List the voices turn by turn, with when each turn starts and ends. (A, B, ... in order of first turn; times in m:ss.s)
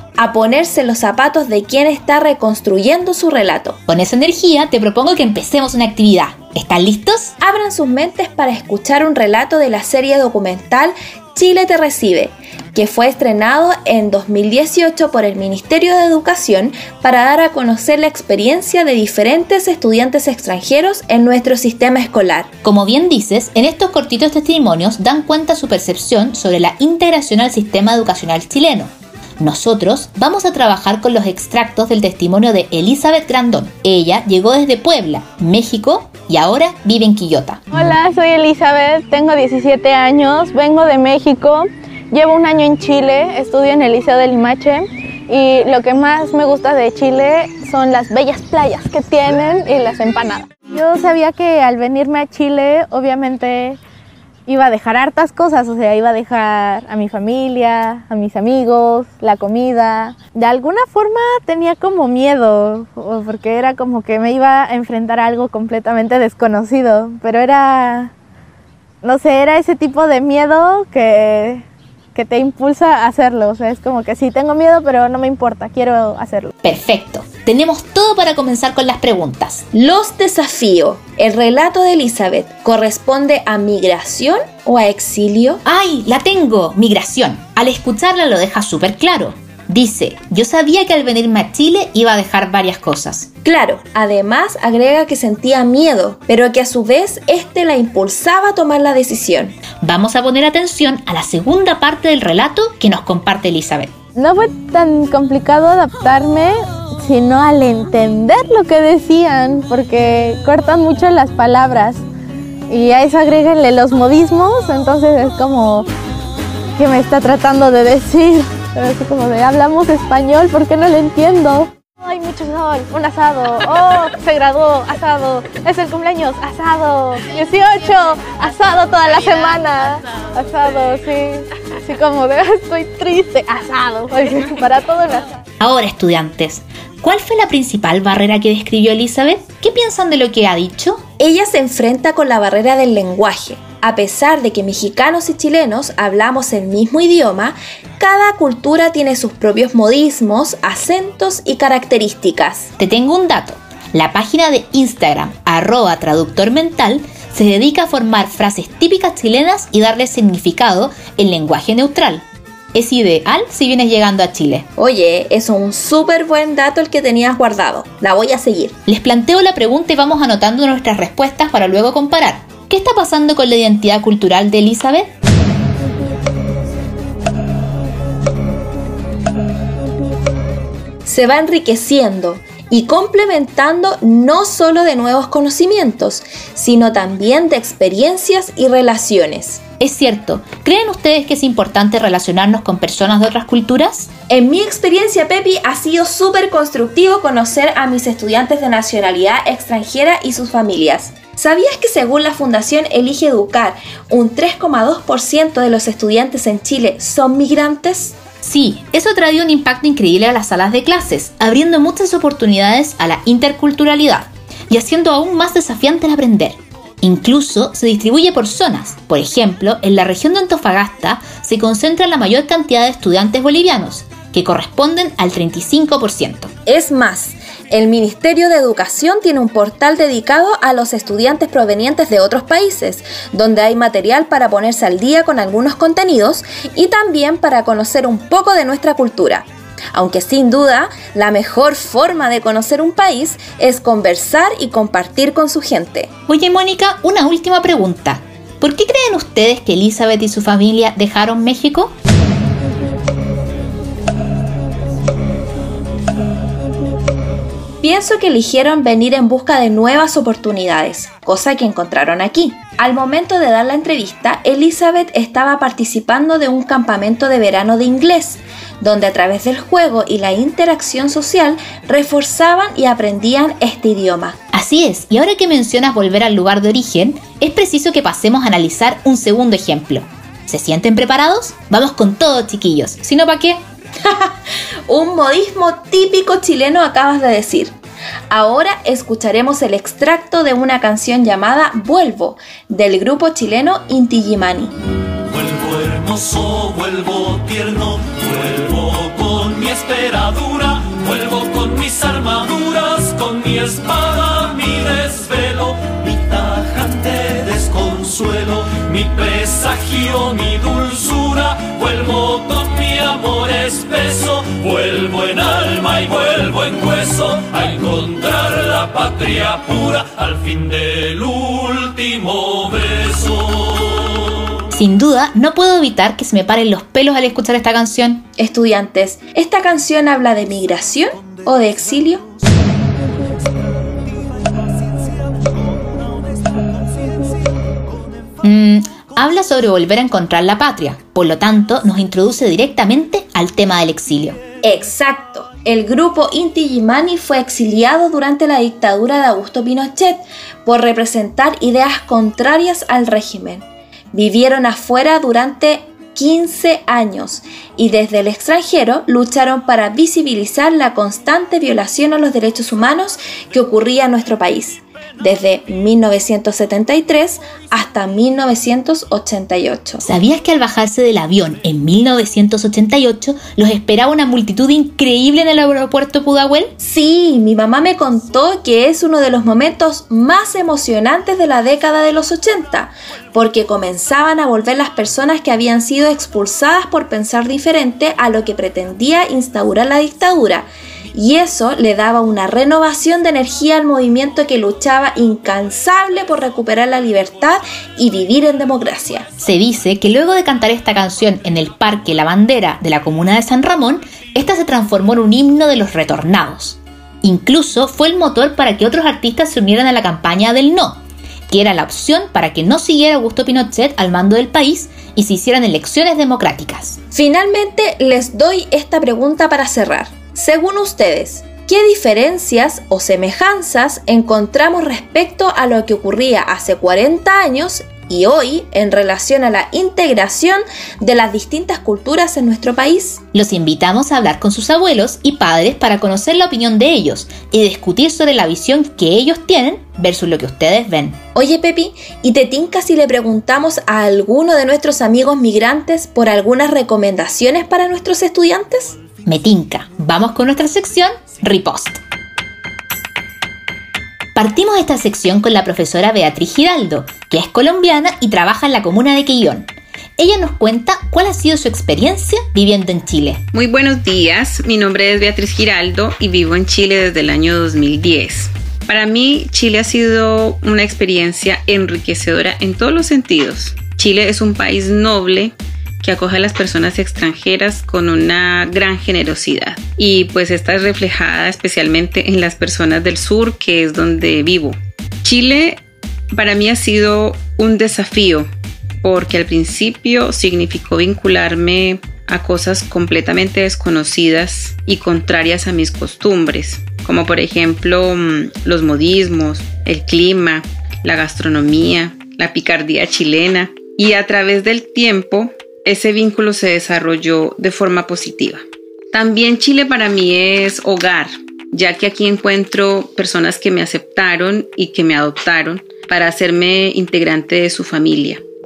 0:00.2-0:03.8 A
0:03.9-0:07.3 B
0:07.4-0:22.5 A
0:22.6-0:37.6 B
0:37.7-0:53.8 C
0:54.5-1:08.1 C
1:09.0-1:11.6 C
1:12.2-1:16.5 C
1:16.6-1:19.6 B
1:19.7-1:25.6 A
1:25.6-1:33.3 B
1:33.4-1:39.6 A
1:39.8-1:43.9 B
1:44.2-1:52.0 C
1:52.7-1:55.9 C
1:56.8-2:15.3 C
2:15.6-2:21.0 B
2:21.2-2:32.7 A
2:32.8-2:44.7 B
2:44.8-2:48.8 A
2:48.9-2:55.1 B
3:01.1-3:09.6 A
3:09.8-3:14.1 B
3:14.3-3:28.2 A
3:28.4-3:46.5 B
3:46.7-4:06.1 A
4:06.3-4:11.9 B
4:17.8-4:34.4 A
4:34.5-4:43.6 B
4:44.0-4:44.3 A
4:44.9-4:47.8 A
4:48.3-4:54.7 A
4:55.3-5:23.9 D
5:24.7-5:28.3 B
5:28.4-5:32.3 A
5:38.4-5:44.4 B
5:44.6-6:10.0 A
6:10.0-6:16.7 B
6:16.8-6:39.3 A
6:39.4-6:51.0 B
6:51.5-6:57.0 B
6:57.1-7:13.2 A
7:13.3-7:21.2 B
7:21.4-7:29.0 A
7:29.2-7:32.0 B
7:34.4-7:43.4 B
7:43.5-8:08.5 E
8:09.0-8:38.4 E